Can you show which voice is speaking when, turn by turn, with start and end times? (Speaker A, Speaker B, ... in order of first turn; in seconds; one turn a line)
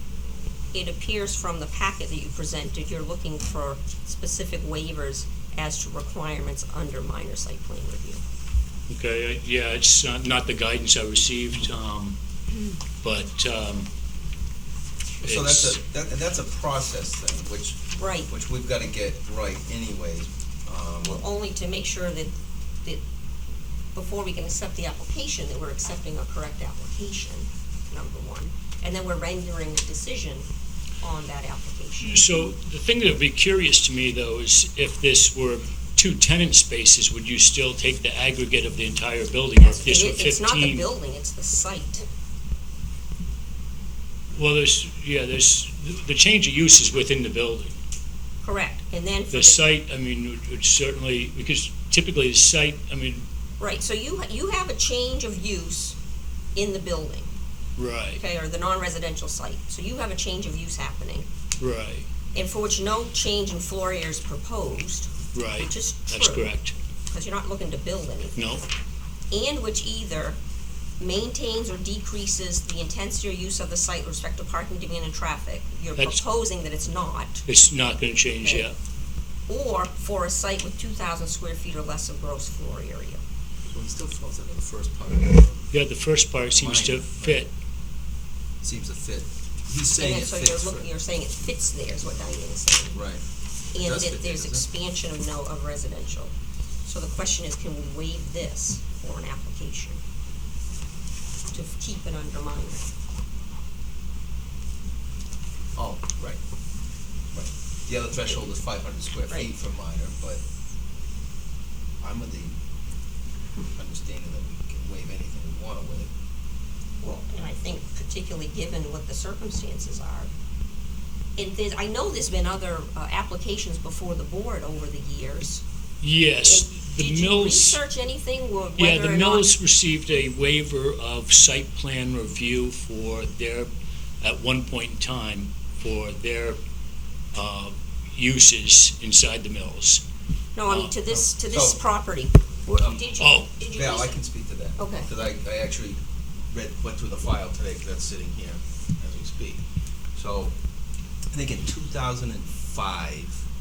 Speaker A: 0.7-8.2
Speaker B: 8.9-12.2
Speaker B: 13.0-13.9
Speaker C: 15.2-21.2
Speaker B: 15.2-15.8
Speaker A: 17.9-18.3
Speaker A: 21.0-23.0
Speaker A: 23.9-30.5
Speaker A: 31.0-32.4
Speaker B: 32.0-40.9
Speaker A: 39.6-42.0
Speaker B: 44.4-47.8
Speaker A: 48.4-49.7
Speaker B: 49.3-53.3
Speaker A: 53.6-56.0
Speaker A: 56.5-57.4
Speaker B: 57.8-58.2
Speaker A: 58.2-61.3
Speaker B: 61.6-62.1
Speaker A: 62.3-66.5
Speaker B: 65.3-66.7
Speaker A: 67.1-68.6
Speaker B: 68.4-68.6
Speaker A: 69.3-70.4
Speaker A: 71.0-77.5
Speaker B: 76.0-76.2
Speaker B: 77.5-78.8
Speaker A: 78.4-78.7
Speaker A: 79.5-83.2
Speaker C: 83.7-85.7
Speaker B: 85.7-87.5
Speaker C: 86.5-87.5
Speaker C: 88.6-90.9
Speaker A: 89.9-93.0
Speaker C: 92.9-93.2
Speaker A: 93.7-96.3
Speaker C: 93.8-94.7
Speaker A: 96.8-100.0
Speaker A: 101.5-102.9
Speaker C: 105.8-106.4
Speaker C: 107.3-110.4
Speaker C: 112.0-112.6
Speaker C: 113.8-116.1
Speaker A: 117.0-120.3
Speaker A: 121.4-125.6
Speaker B: 126.0-127.8
Speaker A: 126.4-129.5
Speaker B: 128.8-133.7
Speaker B: 134.2-136.6
Speaker B: 137.3-140.0
Speaker A: 140.6-144.2
Speaker B: 140.7-140.9
Speaker C: 141.1-141.9
Speaker C: 142.7-150.5
Speaker B: 143.2-143.5
Speaker A: 144.8-145.1
Speaker C: 151.3-153.4